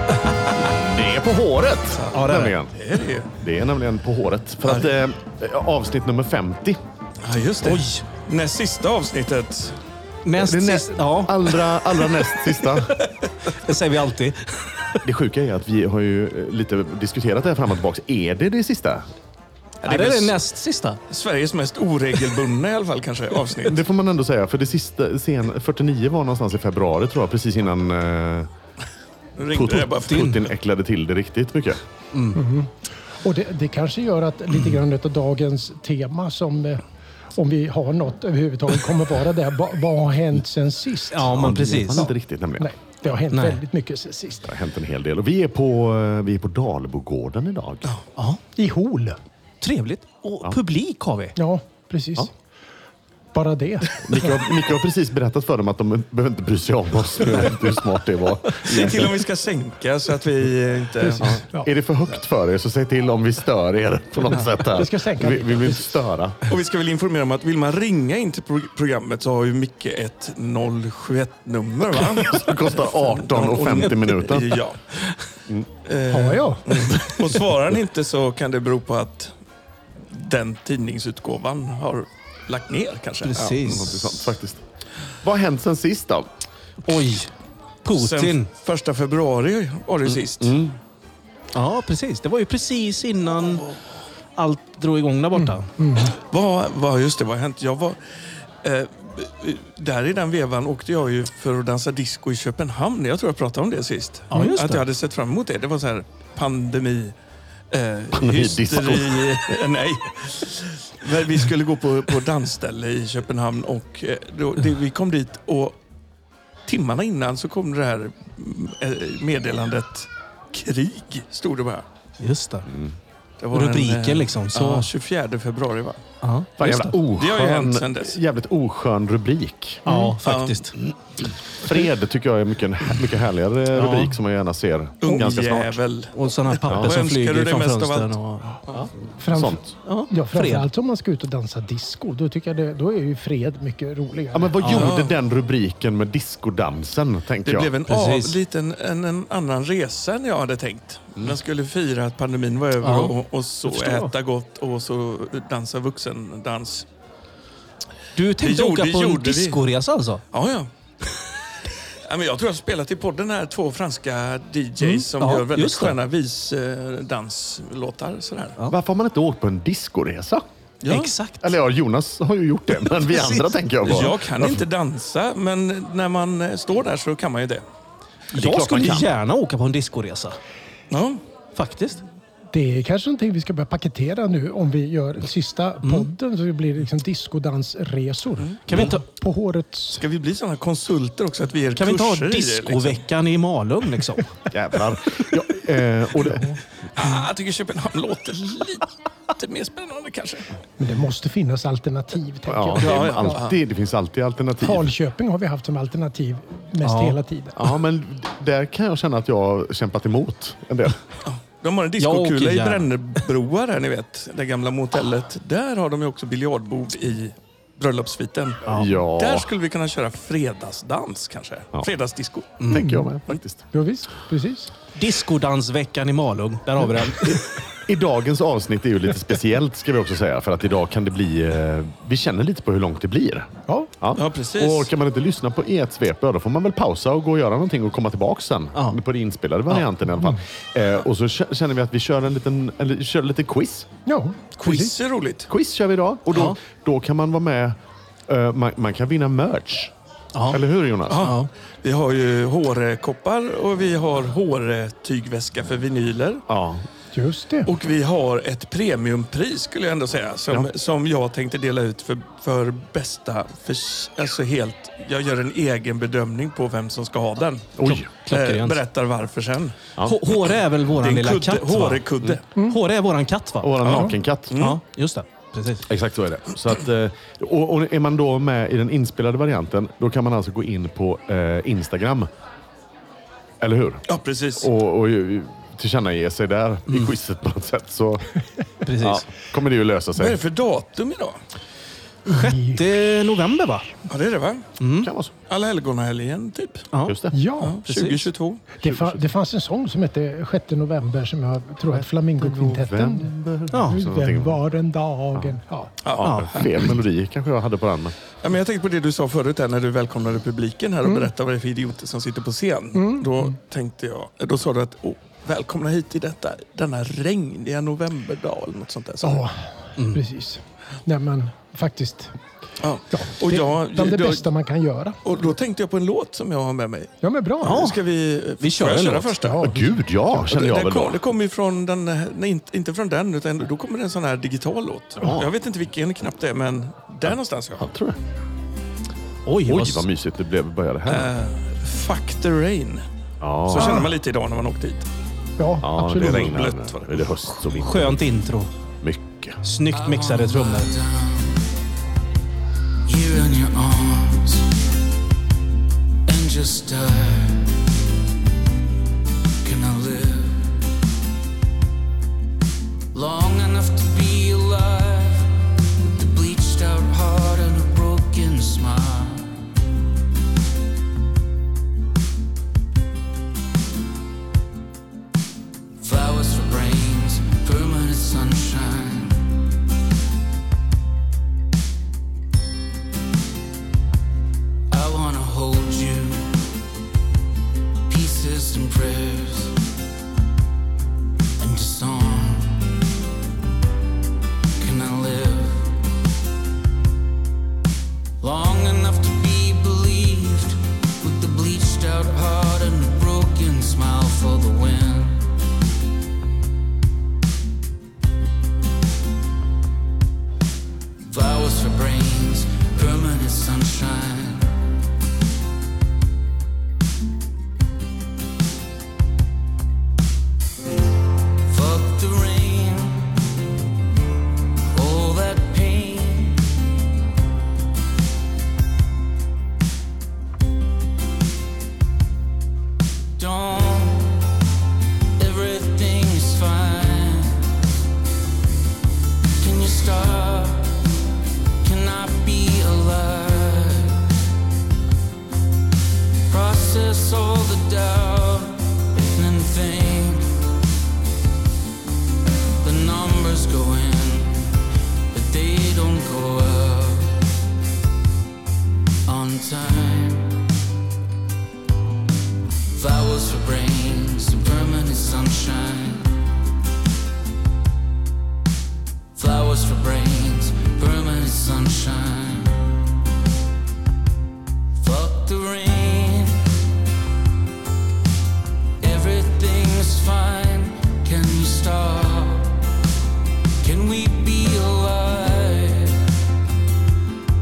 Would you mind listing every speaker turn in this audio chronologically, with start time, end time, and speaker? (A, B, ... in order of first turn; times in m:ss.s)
0:00.6-0:02.8 A
0:02.0-0:02.2 B
0:02.1-0:02.5 C
0:02.7-0:03.3 B
0:03.4-0:06.8 A
0:07.2-0:09.8 B
0:07.6-0:08.0 C
0:10.2-0:11.7 C
0:10.3-0:12.9 A
0:13.4-0:15.0 C
0:15.0-0:19.1 A
0:19.8-0:20.3 B
0:19.8-0:21.0 C
0:21.1-0:23.8 B
0:23.6-0:28.5 A
0:29.4-0:30.4 B
0:29.5-0:31.8 A
0:30.1-0:30.4 C
0:32.1-0:32.4 C
0:32.3-0:36.8 D
0:37.3-0:44.5 D
0:41.1-0:42.1 C
0:41.2-0:42.7 A
0:43.3-0:43.6 C
0:44.5-0:47.9 A
0:48.2-0:48.4 C
0:48.6-0:49.2 D
0:49.6-0:51.4 C
0:51.4-0:52.3 D
0:53.3-0:54.4 D
0:54.0-0:59.2 A
0:58.6-1:01.4 B
1:01.1-1:06.4 A
1:04.5-1:06.0 D
1:06.5-1:15.0 B
1:12.2-1:14.6 A
1:15.8-1:19.3 B
1:16.1-1:17.1 D
1:20.1-1:23.6 B
1:23.2-1:24.1 C
1:23.4-1:24.6 A
1:25.2-1:26.3 A
1:26.8-1:27.3 C
1:27.8-1:28.5 C
1:27.9-1:30.6 B
1:30.0-1:30.8 A
1:31.5-1:33.7 C
1:34.4-1:35.7 C
1:35.4-1:36.1 D
1:36.1-1:38.0 B
1:38.6-1:47.1 B
1:44.3-1:44.8 C
1:47.7-1:55.8 B
1:48.1-1:49.6 A
1:56.7-2:01.8 B
2:02.2-2:02.7 C
2:02.7-2:02.9 A
2:03.4-2:06.0 B
2:03.5-2:04.9 C
2:06.2-2:07.0 C
2:06.6-2:09.8 A
2:06.6-2:08.2 B
2:09.8-2:10.2 D
2:09.8-2:10.8 C
2:10.2-2:10.6 B
2:11.5-2:15.8 A
2:13.7-2:14.1 C
2:15.0-2:18.9 B
2:16.1-2:18.6 C
2:16.7-2:16.9 A
2:18.8-2:19.7 A
2:19.2-2:24.6 D
2:19.8-2:20.6 C
2:24.3-2:27.7 A
2:24.6-2:24.9 C
2:24.7-2:25.2 B
2:27.4-2:36.8 B
2:27.9-2:28.4 C
2:32.8-2:33.1 C
2:33.7-2:34.1 C
2:38.1-2:40.2 C
2:38.4-2:39.6 B
2:40.3-2:40.7 B
2:42.0-2:48.6 B
2:44.8-2:46.0 C
2:48.7-2:50.4 A
2:50.8-2:51.1 B
2:50.9-2:51.4 C
2:51.4-2:54.6 A
2:52.9-2:53.5 C
2:53.8-2:57.6 B
2:58.3-3:00.4 C
2:58.3-2:59.1 A
3:00.9-3:01.2 B
3:01.5-3:02.0 C
3:02.5-3:10.0 D
3:05.8-3:06.1 C
3:08.6-3:09.0 C
3:10.0-3:13.0 B
3:11.8-3:14.3 C
3:14.5-3:16.6 A
3:16.9-3:20.5 B
3:20.8-3:23.4 D
3:22.5-3:24.9 A
3:22.8-3:23.6 B
3:24.6-3:27.7 D
3:26.8-3:27.2 C
3:27.6-3:31.0 A
3:31.2-3:42.6 B
3:32.0-3:32.9 C
3:38.7-3:39.5 A
3:42.6-3:42.9 C
3:42.6-3:43.6 A
3:42.7-3:43.1 D
3:43.7-3:44.7 D
3:44.9-3:47.4 C
3:46.8-4:03.9 A
3:54.2-3:54.9 B
4:04.0-4:04.9 D
4:04.6-4:05.5 B
4:05.5-4:07.8 A
4:06.3-4:06.6 C
4:08.3-4:09.9 A
4:10.3-4:10.6 C
4:10.5-4:11.3 A
4:11.1-4:16.4 B
4:11.2-4:11.5 C
4:16.5-4:16.8 A
4:17.1-4:17.7 D
4:17.6-4:29.8 B
4:27.8-4:28.1 A
4:27.8-4:28.8 C
4:30.0-4:32.0 C
4:31.0-4:32.4 B
4:32.6-4:33.8 C
4:33.6-4:34.6 A
4:33.8-4:34.8 B
4:34.5-4:35.8 C
4:35.9-4:42.3 A
4:43.6-4:44.0 A
4:44.1-4:44.7 B
4:44.6-4:48.3 A
4:48.8-4:49.3 C
4:49.0-4:50.4 A
4:50.2-4:51.4 B
4:52.2-4:53.9 C
4:52.3-4:53.0 D
4:54.1-4:54.7 B
4:54.8-4:55.1 C
4:55.0-4:55.3 A
4:55.5-4:56.9 B
4:56.9-4:57.2 C
4:57.0-4:57.4 A
4:57.3-4:57.8 D
4:57.6-4:58.6 B
4:57.8-4:58.3 C
4:58.7-5:05.9 D
4:58.8-4:59.2 A
5:01.9-5:04.6 A
5:03.7-5:04.0 C
5:05.3-5:08.2 A
5:06.0-5:06.7 B
5:06.2-5:06.6 C
5:08.4-5:19.4 B
5:11.0-5:11.3 D
5:12.9-5:13.5 D
5:19.2-5:22.3 D
5:22.8-5:24.5 B
5:23.1-5:25.2 D
5:25.2-5:27.1 B
5:27.2-5:27.8 D
5:27.6-5:28.0 C
5:27.6-5:29.8 B
5:28.6-5:29.3 C
5:29.4-5:30.0 D
5:29.6-5:31.2 A
5:30.5-5:37.9 B
5:35.2-5:35.5 A
5:37.2-5:38.2 A
5:39.4-5:40.0 C
5:39.6-5:41.3 A
5:41.1-5:43.0 B
5:43.4-5:44.1 A
5:43.6-5:45.0 B
5:43.8-5:44.1 D
5:45.6-5:46.5 D
5:45.8-5:48.2 A
5:46.1-5:47.0 B
5:47.6-5:48.7 C
5:49.0-5:49.6 A
5:49.6-5:50.9 C
5:49.9-5:51.7 E
5:53.0-5:54.7 E
5:56.2-5:57.8 E
5:59.6-6:00.8 E
6:03.1-6:09.5 E
6:16.0-6:19.6 E
6:24.9-6:26.6 E
6:28.1-6:29.8 E
6:31.6-6:33.0 E
6:34.8-6:36.0 E
6:38.4-6:45.5 E
6:51.3-6:54.7 E
7:01.6-7:03.5 E
7:04.9-7:06.7 E
7:13.4-7:14.5 E
7:15.4-7:17.7 E
7:19.6-7:21.0 E
7:21.8-7:24.2 E
7:26.5-7:30.5 E
7:32.8-7:37.4 E
7:39.2-7:40.8 E
7:42.9-7:46.3 E
7:49.3-7:53.1 E
7:55.0-7:56.7 E
7:59.0-8:02.9 E
8:03.8-8:06.2 E